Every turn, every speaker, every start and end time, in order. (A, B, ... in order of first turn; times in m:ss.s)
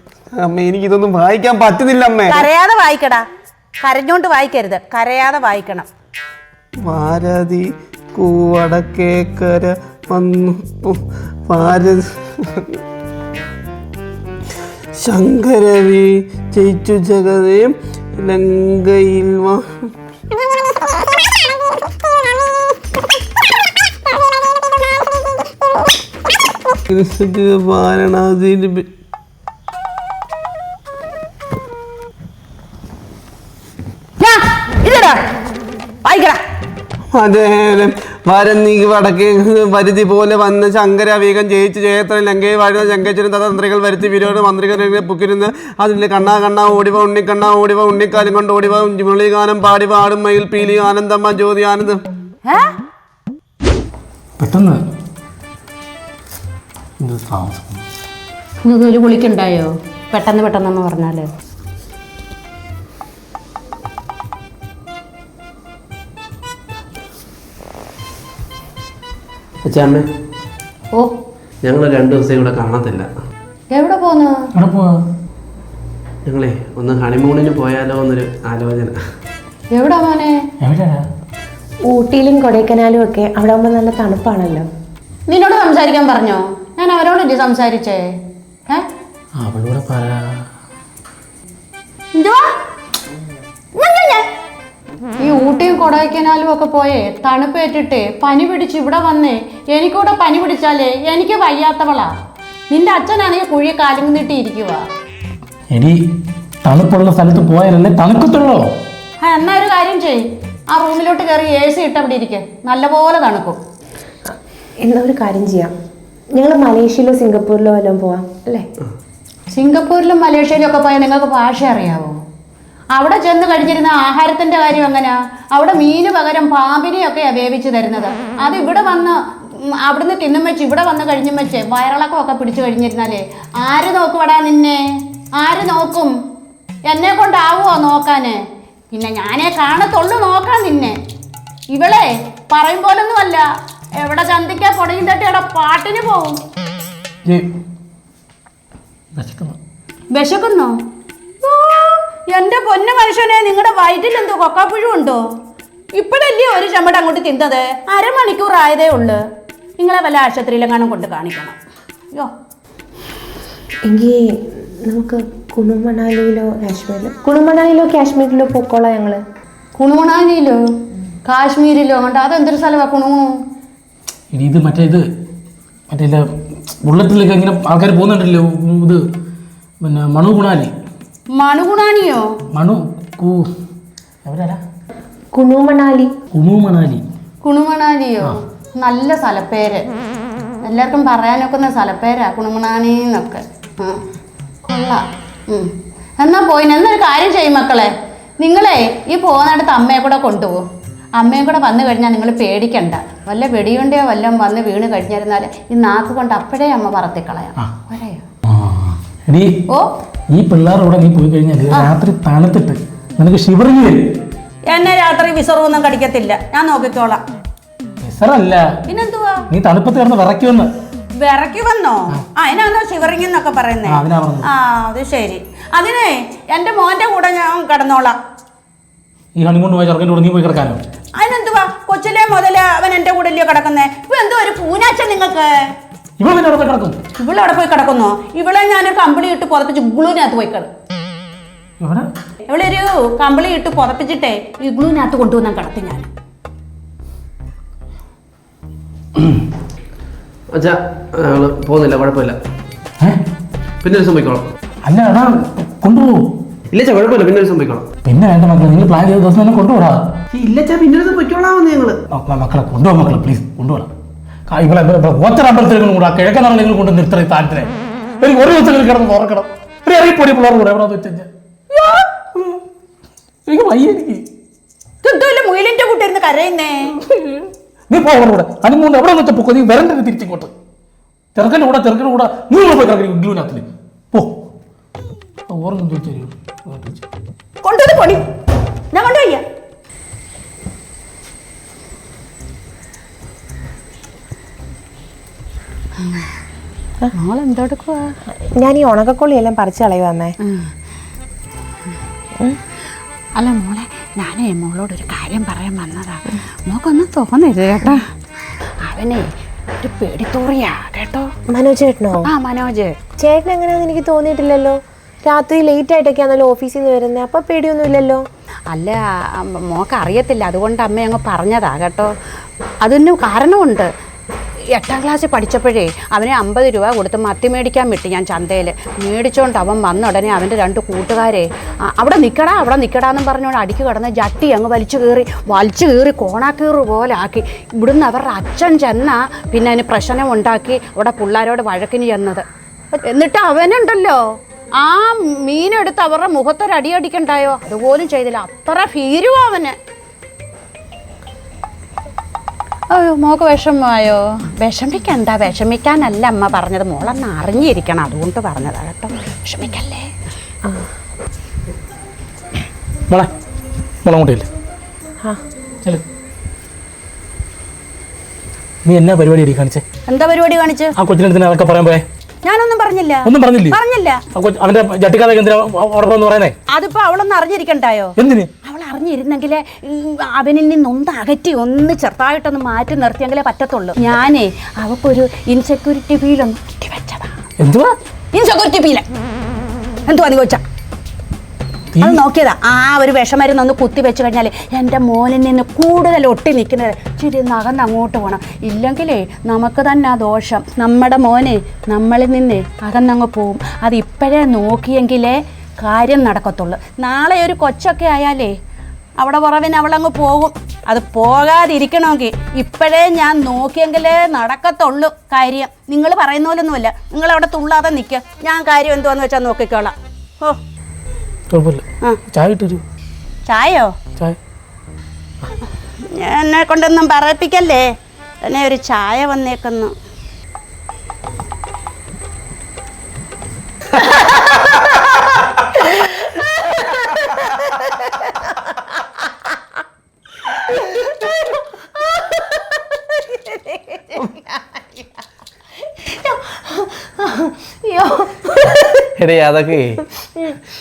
0:00.4-0:02.5 A
0:02.3-0:03.2 B
0:03.8-0:05.9 B
0:06.8-0:12.8 A
0:15.0-0:19.9 A
0:26.9-0:28.9 A
0:34.2-0:35.2 B
0:36.0-0:36.4 B
0:37.1-0:52.0 A
0:52.5-0:52.7 B
0:54.4-0:54.8 C
0:57.0-0:57.8 C
0:58.6-1:01.3 B
1:09.6-1:10.1 A
1:11.6-1:13.1 A
1:13.7-1:14.4 B
1:14.6-1:14.9 C
1:16.3-1:19.0 A
1:19.7-1:20.4 B
1:20.6-1:21.0 C
1:21.9-1:24.7 D
1:25.3-1:28.1 B
1:29.4-1:30.4 C
1:32.2-1:32.5 B
1:33.8-1:34.3 B
1:35.2-1:42.1 B
1:42.7-1:44.9 B
1:45.7-1:46.0 C
1:46.6-1:48.7 C
1:49.2-1:53.6 B
1:54.3-1:55.7 D
1:56.4-1:58.7 D
1:59.5-2:02.2 B
2:02.9-2:16.2 B
2:16.9-2:21.0 B
2:21.7-2:23.5 B
2:24.0-2:26.4 B
2:29.2-2:29.6 C
2:30.1-2:30.8 B
2:31.4-2:35.2 B
2:36.0-2:39.2 B
2:39.8-2:41.6 B
2:43.8-2:49.2 D
2:49.8-2:50.6 B
2:51.3-2:53.4 B
2:54.3-2:55.1 C
2:55.9-2:56.3 C
2:56.8-2:59.0 C
2:59.8-3:00.7 C
3:01.4-3:02.3 B
3:02.5-3:03.5 C
3:04.2-3:04.6 C
3:05.3-3:06.1 D
3:06.3-3:07.0 C
3:07.4-3:09.8 B
3:10.6-3:14.0 B
3:14.7-3:20.7 B
3:21.2-3:28.2 B
3:28.5-3:29.7 C
3:30.3-3:34.1 C
3:34.7-3:37.2 B
3:38.0-3:38.7 C
3:38.9-3:39.5 B
3:39.5-3:40.7 C
3:41.2-3:48.2 B
3:43.9-3:44.5 C
3:49.4-3:50.8 C
3:51.2-3:55.7 B
3:56.2-3:57.0 C
3:57.2-4:00.7 B
4:01.8-4:02.1 C
4:02.5-4:06.1 B
4:09.2-4:09.4 C
4:10.5-4:12.4 A
4:13.8-4:14.5 A
4:14.9-4:16.4 C
4:16.7-4:17.9 A
4:18.0-4:20.0 C
4:20.3-4:22.0 A
4:22.1-4:23.9 C
4:24.5-4:27.7 C
4:28.2-4:31.3 C
4:31.7-4:32.1 B
4:33.5-4:34.2 C
4:35.0-4:37.0 B
4:37.1-4:40.5 C
4:41.4-4:44.4 C
4:45.5-4:47.1 C
4:47.6-4:48.2 B
4:48.9-4:49.4 B
4:56.0-4:56.3 B
4:57.2-4:58.2 B
4:58.6-5:00.4 D
5:00.4-5:00.7 B
5:03.4-5:08.1 B
5:08.8-5:11.3 B
5:11.5-5:12.3 D
5:12.3-5:13.0 B
5:13.2-5:18.2 D
5:18.7-5:22.1 B
5:22.8-5:23.9 B
5:24.8-5:44.2 B
5:44.8-5:49.8 B
5:52.9-6:00.1 B
6:04.0-6:04.5 C
6:08.9-6:09.8 C
6:10.1-6:10.9 B
6:11.0-6:12.0 C
6:12.4-6:14.2 B
6:13.2-6:13.8 C
6:14.3-6:16.6 C
6:16.7-6:27.4 B
6:18.2-6:18.5 C
6:27.6-6:27.9 C
6:28.3-6:29.1 B
6:30.1-6:30.6 B
6:31.9-6:32.2 C
6:32.0-6:48.6 B
6:49.2-7:00.6 B
7:01.5-7:02.8 C
7:03.5-7:04.0 B
7:06.1-7:07.9 B
7:08.4-7:09.9 B
7:16.0-7:18.7 D
7:20.6-7:25.1 D
7:25.9-7:29.1 D
7:29.2-7:30.0 A